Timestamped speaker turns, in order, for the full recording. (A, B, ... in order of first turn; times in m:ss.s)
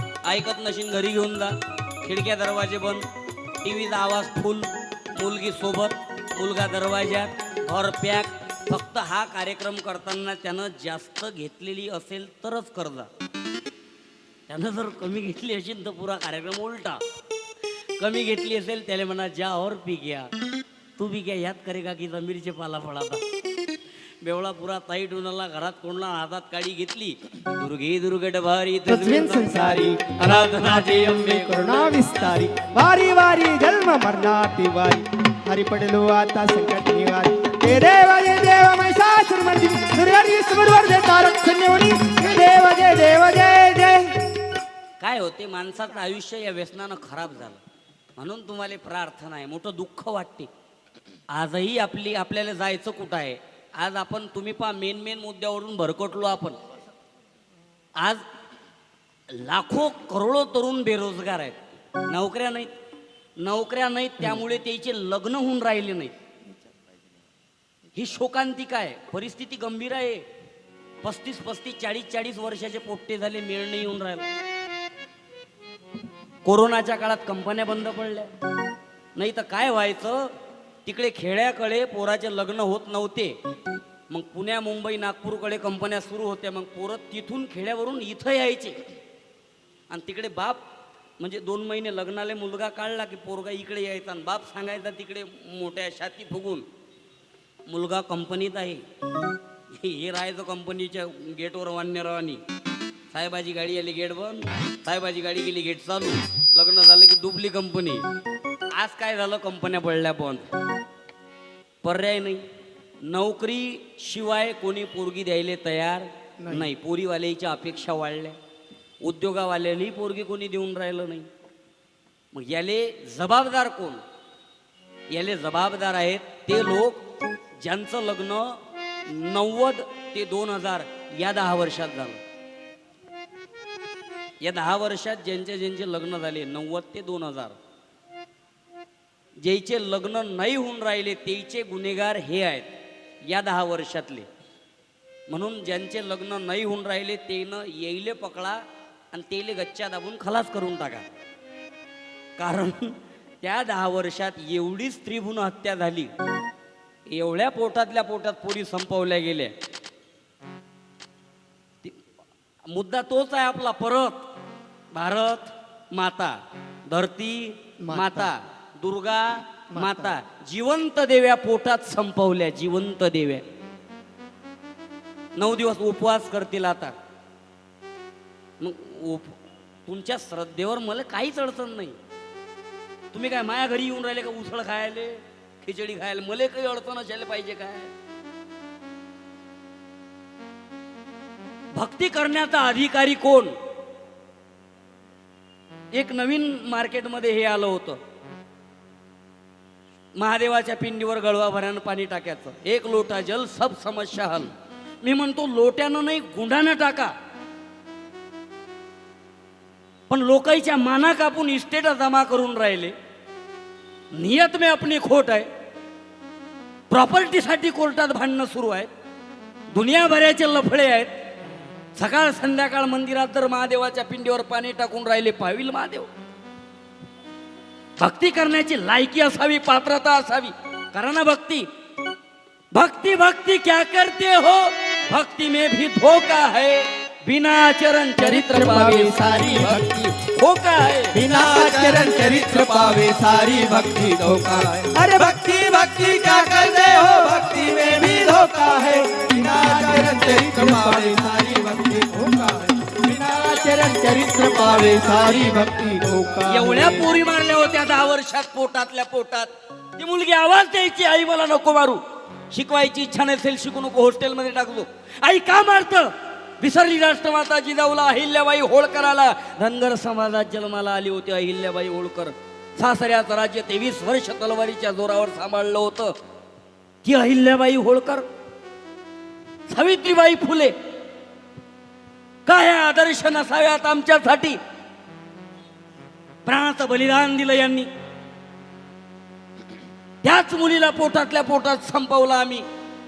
0:00.2-0:03.1 A
0:03.6-0:13.1 A
0:14.5-0:17.0 A
0:18.0-0:20.3 A
0:21.0-0:23.2 A
0:24.2-0:32.0 A
0:28.9-0:30.1 B
0:31.5-0:44.2 B
0:45.0-0:47.6 A
0:48.2-0:50.5 A
0:51.3-0:56.6 A
0:58.0-0:58.2 A
0:59.3-1:02.7 A
1:03.4-1:06.1 A
1:07.9-1:10.2 A
1:11.0-1:14.3 A
1:16.4-1:18.3 A
1:19.2-1:20.3 A
1:20.8-1:23.4 A
1:24.1-1:28.8 A
1:29.9-1:30.6 A
1:31.2-1:36.6 A
1:37.7-1:38.8 A
1:39.7-1:42.4 A
1:43.1-1:48.0 A
1:48.7-1:50.5 A
1:51.8-1:52.4 A
1:53.0-1:58.4 A
1:56.4-1:56.7 B
1:59.0-2:01.3 A
2:02.3-2:04.0 A
2:05.1-2:07.0 A
2:07.6-2:12.2 A
2:14.4-2:17.6 A
2:19.4-2:22.7 A
2:23.3-2:24.3 A
2:25.3-2:28.6 A
2:29.1-2:31.0 A
2:32.4-2:36.1 A
2:37.1-2:39.5 A
2:42.7-2:44.2 A
2:44.9-2:53.4 A
2:47.8-2:48.3 B
2:49.7-2:50.1 B
2:55.4-2:57.0 A
2:58.6-3:02.0 A
3:03.1-3:07.9 A
3:11.7-3:13.5 A
3:15.9-3:18.0 A
3:20.2-3:24.5 A
3:25.0-3:27.1 A
3:30.1-3:32.9 A
3:34.1-3:35.5 A
3:36.9-3:38.9 A
3:39.7-3:41.1 A
3:41.9-3:46.1 A
3:48.0-3:51.7 A
3:52.7-4:01.2 A
3:58.2-4:00.1 B
4:01.1-4:12.7 C
4:01.2-4:02.1 B
4:04.9-4:05.4 B
4:10.3-4:11.3 B
4:12.8-4:17.1 B
4:14.6-4:15.5 C
4:16.5-4:36.2 A
4:37.0-4:38.2 A
4:39.7-4:40.7 A
4:42.4-4:44.6 A
4:46.4-4:47.9 A
4:50.2-4:52.6 A